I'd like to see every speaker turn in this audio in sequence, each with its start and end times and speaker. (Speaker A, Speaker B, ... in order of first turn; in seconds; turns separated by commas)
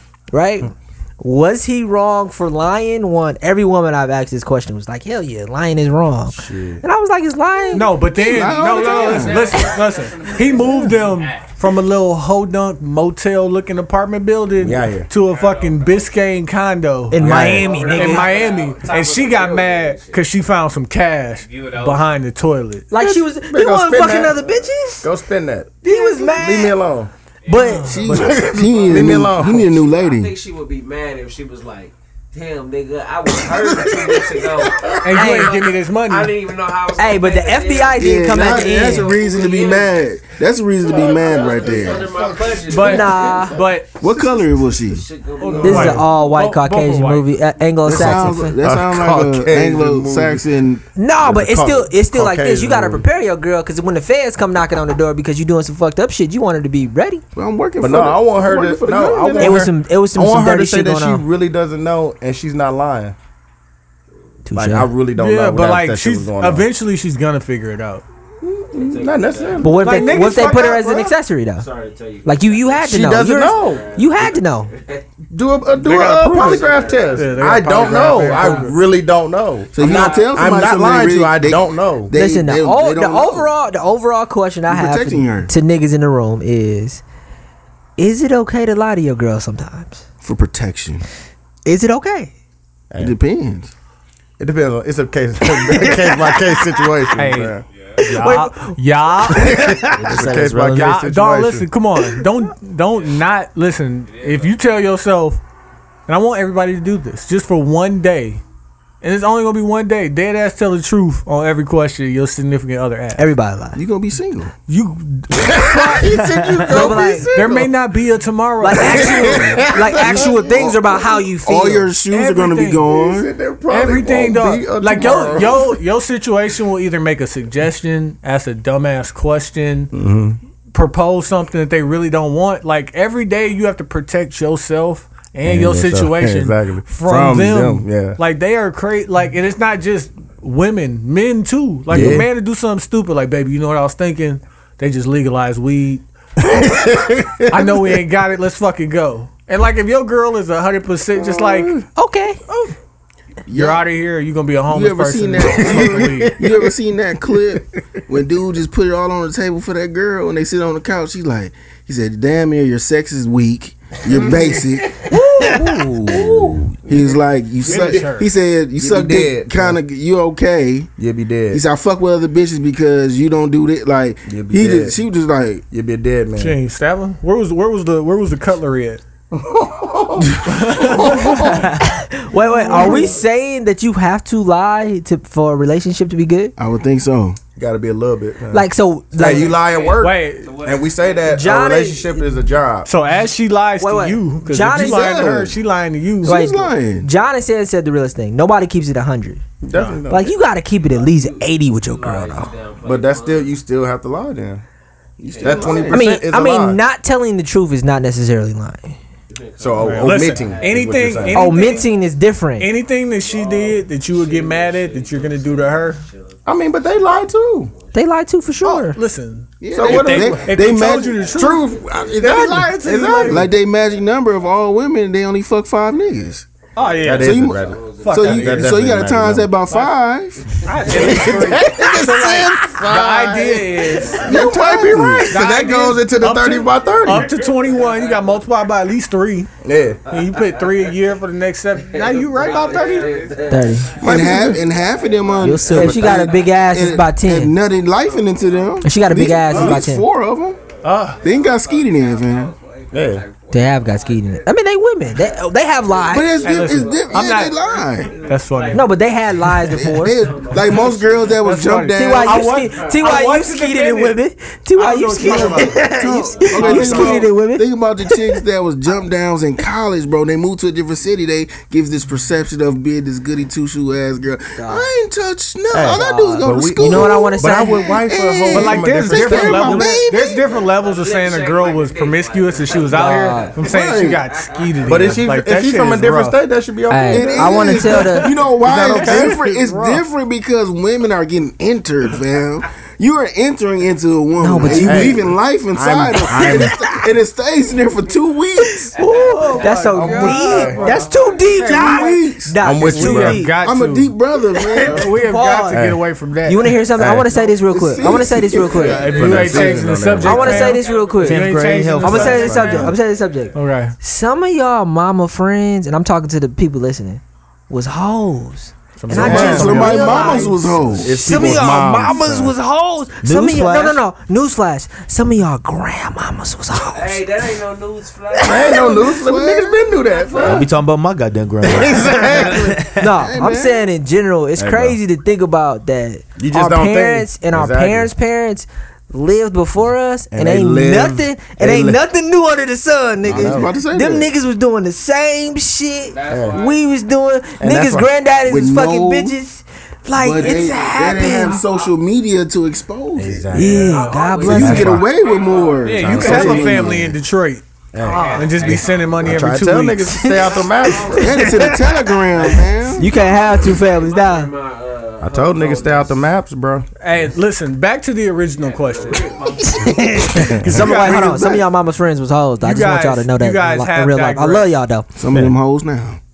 Speaker A: 0.3-7.9, Speaker B: 6.3-6.8, Speaker C: 7.7-22.9, Speaker D: 8.1-9.6, Speaker E: 8.9-10.6, Speaker B: 10.6-10.9, Speaker B: 14.6-15.1, Speaker E: 15.3-16.0, Speaker A: 17.1-18.4, Speaker B: 17.2-17.6, Speaker E: 17.5-20.2, Speaker E: 21.4-22.0, Speaker A: 22.9-25.1, Speaker B: 23.0-27.1, Speaker A: 25.8-26.8, Speaker A: 27.4-28.2, Speaker C: 27.5-28.6, Speaker D: 27.8-30.3, Speaker B: 28.1-29.7, Speaker E: 28.7-29.0, Speaker E: 29.6-40.0, Speaker B: 33.5-35.0, Speaker C: 35.0-36.5, Speaker A: 35.1-35.5, Speaker A: 37.0-39.1, Speaker D: 38.0-42.1, Speaker F: 38.5-39.1, Speaker E: 40.8-43.5, Speaker B: 41.8-42.8, Speaker C: 42.6-43.9, Speaker A: 42.8-43.6, Speaker D: 44.0-45.1, Speaker E: 44.1-46.0, Speaker C: 45.4-47.4, Speaker B: 45.4-46.0, Speaker A: 45.6-48.6, Speaker D: 47.8-50.8, Speaker B: 47.9-50.4, Speaker A: 51.0-57.2, Speaker B: 51.2-53.0, Speaker D: 57.3-59.6, Speaker B: 57.8-63.1, Speaker A: 59.4-61.2, Speaker A: 64.5-64.9, Speaker B: 64.5-66.7, Speaker C: 65.1-68.0, Speaker B: 68.4-70.3, Speaker E: 68.7-70.8, Speaker A: 69.6-71.7, Speaker C: 69.7-71.1, Speaker E: 71.6-75.0, Speaker A: 72.2-74.7, Speaker B: 72.8-73.8, Speaker B: 75.3-82.1, Speaker C: 75.8-78.7, Speaker E: 75.9-78.7, Speaker D: 79.7-83.5, Speaker E: 79.7-80.6, Speaker A: 82.1-87.0, Speaker D: 84.7-85.5, Speaker A: 88.0-90.0, Speaker D: 90.2-91.0, Speaker A: 91.6-92.3, Speaker B: 92.9-93.2, Speaker D: 93.0-93.7, Speaker B: 94.4-97.6, Speaker A: 95.5-96.5, Speaker C: 97.1-99.6, Speaker A: 98.0-100.0, Speaker B: 99.3-101.7, Speaker F: 99.9-101.0, Speaker C: 100.7-105.4, Speaker E: 104.2-104.5, Speaker C: 106.1-108.4, Speaker C: 109.0-113.3, Speaker A: 113.2-113.8, Speaker D: 113.7-114.5, Speaker C: 114.7-116.2, Speaker B: 115.3-117.7, Speaker A: 116.7-117.3, Speaker C: 116.7-119.7, Speaker A: 118.6-121.9, Speaker B: 118.8-121.2, Speaker D: 120.0-120.8, Speaker D: 121.4-123.3, Speaker C: 122.1-122.9, Speaker B: 122.9-125.8, Speaker C: 123.7-129.9, Speaker B: 129.9-130.4, Speaker C: 130.7-146.0, Speaker B: 135.4-138.2, Speaker B: 141.9-142.3, Speaker B: 146.4-147.9, Speaker C: 147.5-151.8, Speaker B: 151.1-151.8, Speaker A: 151.9-152.4, Speaker C: 152.5-152.7, Speaker D: 153.5-153.9, Speaker C: 153.5-156.4, Speaker D: 154.7-170.9, Speaker B: 155.6-156.5, Speaker B: 164.1-164.4, Speaker C: 165.1-165.8, Speaker B: 166.1-168.1, Speaker C: 167.7-168.3, Speaker B: 168.8-169.8, Speaker B: 171.0-171.6, Speaker D: 171.5-175.6, Speaker B: 174.3-175.0, Speaker B: 175.7-176.6, Speaker C: 176.4-179.0, Speaker B: 179.3-181.6, Speaker C: 180.5-181.7, Speaker A: 181.8-186.5, Speaker C: 182.7-183.1, Speaker D: 186.6-187.4, Speaker B: 187.6-192.9, Speaker A: 188.5-189.6, Speaker E: 189.2-191.3, Speaker C: 190.0-190.6, Speaker A: 191.3-192.3, Speaker C: 192.8-196.5, Speaker A: 193.8-195.3, Speaker D: 194.7-195.6, Speaker D: 196.2-197.1, Speaker A: 196.2-199.4, Speaker B: 199.6-200.3, Speaker C: 199.7-200.0, Speaker A: 200.1-202.5, Speaker E: 200.8-203.6, Speaker B: 202.8-204.6, Speaker D: 205.2-206.0, Speaker E: 205.2-205.9, Speaker B: 205.4-206.8, Speaker A: 205.9-209.0, Speaker E: 209.3-212.0, Speaker B: 209.6-211.6, Speaker C: 209.8-211.8, Speaker A: 211.3-212.7, Speaker C: 212.6-216.0, Speaker E: 213.1-218.0, Speaker B: 216.4-217.7, Speaker A: 217.9-219.0, Speaker C: 218.6-221.7, Speaker D: 219.6-221.2, Speaker B: 219.7-220.5, Speaker E: 220.4-223.1, Speaker B: 221.3-223.5, Speaker C: 222.2-223.5, Speaker D: 223.2-226.5, Speaker C: 226.8-227.5, Speaker B: 227.0-229.5, Speaker D: 227.2-230.4, Speaker E: 227.6-228.4, Speaker C: 228.0-228.7, Speaker C: 229.7-229.9, Speaker E: 230.5-231.8, Speaker C: 230.6-234.6, Speaker B: 230.9-237.3, Speaker D: 231.2-232.4, Speaker E: 234.0-234.3, Speaker D: 234.2-235.3, Speaker C: 235.2-239.5, Speaker E: 236.6-238.5, Speaker B: 239.6-240.0, Speaker E: 240.1-240.9, Speaker C: 240.1-243.3, Speaker E: 241.8-246.6, Speaker A: 243.4-244.5, Speaker D: 243.9-250.6, Speaker A: 245.4-247.5, Speaker E: 247.9-248.8, Speaker A: 248.8-250.0, Speaker B: 249.5-249.8, Speaker E: 250.6-254.5, Speaker C: 250.8-251.2, Speaker D: 251.2-252.5, Speaker B: 252.9-253.2, Speaker A: 253.5-256.3, Speaker E: 255.1-258.9, Speaker D: 256.1-258.2, Speaker C: 256.4-257.6, Speaker C: 258.2-258.9, Speaker A: 258.7-260.2, Speaker D: 259.6-262.5, Speaker E: 260.1-261.4, Speaker C: 260.6-264.2, Speaker A: 261.9-268.4, Speaker E: 262.6-263.1, Speaker C: 264.7-265.9, Speaker E: 265.4-267.2, Speaker D: 265.4-280.4, Speaker C: 266.5-266.9, Speaker A: 274.6-274.9, Speaker B: 275.7-279.7, Speaker A: 275.9-277.8, Speaker C: 278.5-286.4, Speaker A: 279.6-280.1, Speaker E: 280.3-285.3, Speaker A: 282.9-283.6, Speaker D: 283.7-284.2, Speaker B: 284.8-287.9, Speaker A: 286.9-288.3, Speaker D: 287.1-298.9, Speaker C: 287.9-289.9, Speaker B: 288.6-290.0, Speaker A: 294.4-295.2, Speaker B: 294.7-296.8, Speaker A: 296.3-296.8, Speaker A: 298.6-303.5, Speaker E: 298.9-301.5, Speaker B: 299.9-300.8, Speaker C: 300.1-301.0, Speaker D: 301.6-302.9, Speaker B: 302.6-303.5, Speaker C: 302.9-304.1, Speaker D: 303.5-305.1, Speaker C: 304.7-306.8, Speaker A: 304.8-305.8, Speaker B: 305.7-306.0, Speaker A: 306.4-309.1, Speaker B: 307.0-307.3, Speaker D: 307.3-309.5, Speaker C: 308.8-312.9, Speaker B: 308.8-310.8, Speaker E: 308.8-311.8, Speaker A: 310.2-327.2, Speaker F: 311.2-312.7, Speaker B: 312.5-312.9, Speaker C: 313.5-313.9, Speaker C: 319.0-320.5, Speaker B: 319.1-320.2, Speaker D: 319.1-321.5, Speaker B: 320.9-322.5, Speaker F: 323.2-324.0, Speaker E: 326.7-329.1, Speaker B: 328.4-330.7, Speaker D: 328.6-330.1, Speaker E: 329.9-330.7, Speaker F: 330.4-332.9, Speaker B: 331.7-332.8, Speaker D: 332.1-333.9, Speaker A: 332.9-351.6, Speaker B: 334.6-335.0, Speaker B: 336.4-338.1, Speaker B: 340.3-342.0, Speaker D: 343.2-344.3, Speaker B: 343.2-343.7, Speaker E: 346.1-346.8, Speaker B: 346.3-346.6, Speaker B: 347.6-348.1, Speaker D: 348.4-349.4, Speaker D: 350.2-353.6, Speaker E: 350.3-351.9, Speaker B: 353.1-355.1, Speaker A: 353.5-354.9, Speaker E: 353.7-356.4, Speaker D: 354.4-357.2, Speaker F: 354.5-355.0, Speaker C: 355.8-360.3, Speaker B: 355.9-357.1, Speaker B: 357.9-361.3, Speaker E: 358.0-359.6, Speaker E: 360.4-366.2, Speaker D: 361.1-363.1, Speaker A: 361.3-362.1, Speaker A: 363.0-364.5, Speaker B: 365.2-366.9, Speaker C: 367.0-369.4, Speaker E: 368.5-370.2, Speaker A: 369.6-375.1, Speaker C: 370.3-371.6, Speaker C: 372.6-374.7, Speaker D: 375.1-376.2